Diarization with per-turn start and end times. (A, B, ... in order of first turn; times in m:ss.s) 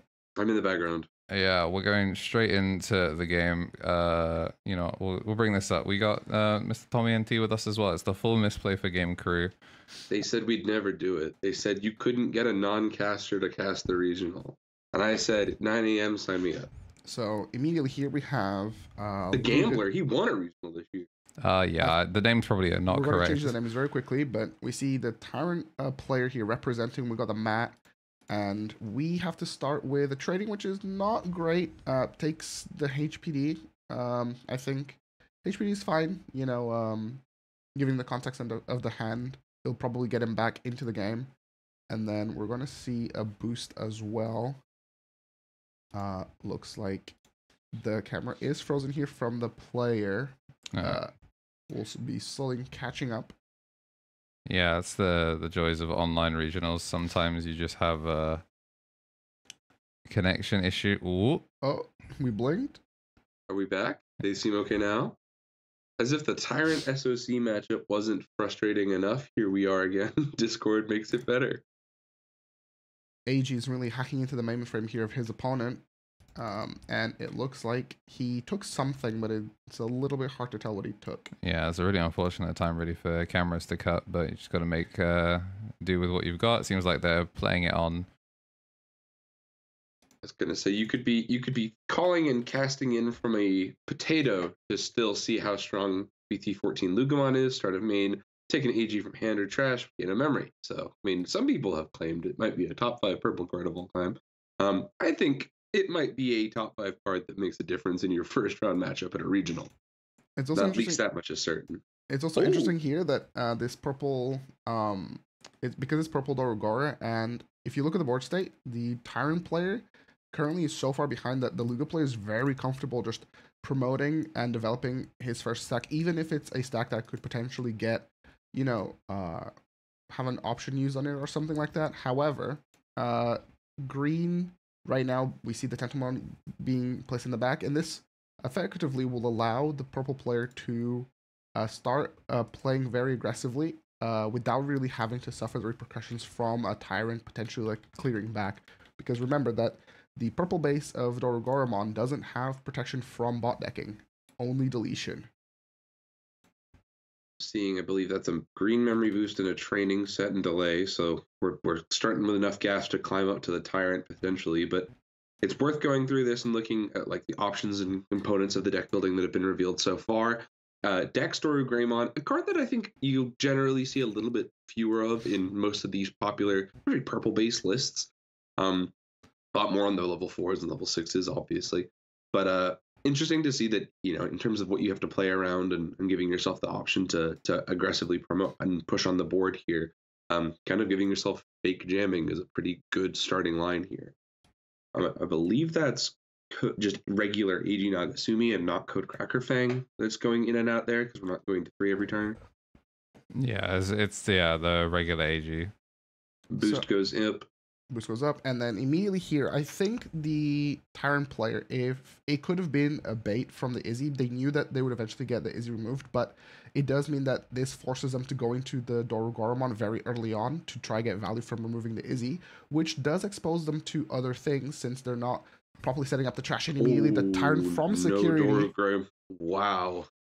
0:00.4-0:01.1 A
0:01.3-0:09.5 B
0:10.1-0:16.7 A
0:17.0-0:19.8 C
0:19.3-0:21.1 A
0:21.4-0:23.5 B
0:22.9-0:27.8 C
0:28.3-0:37.2 C
0:37.8-0:41.3 C
0:41.9-0:44.6 C
0:45.9-0:47.1 C
0:47.7-0:51.1 C
0:50.7-0:51.0 B
0:51.7-0:53.3 C
0:54.5-0:58.4 B
1:00.1-1:01.4 B
1:01.6-1:02.8 C
1:03.5-1:05.2 A
1:06.0-1:11.6 A
1:13.3-1:15.8 C
1:16.4-1:21.3 C
1:21.4-1:28.1 B
1:30.2-1:49.7 A
1:50.4-1:51.0 C
1:50.6-1:51.8 A
1:52.1-2:09.5 C
1:52.4-1:52.7 A
2:10.1-2:35.3 C
2:37.4-2:44.9 A
2:45.4-2:58.9 A
2:59.5-3:14.1 A
3:14.9-3:22.4 A
3:23.3-3:25.7 B
3:26.5-3:27.5 A
3:26.6-3:26.8 C
3:27.9-3:48.7 C
3:46.8-3:50.1 A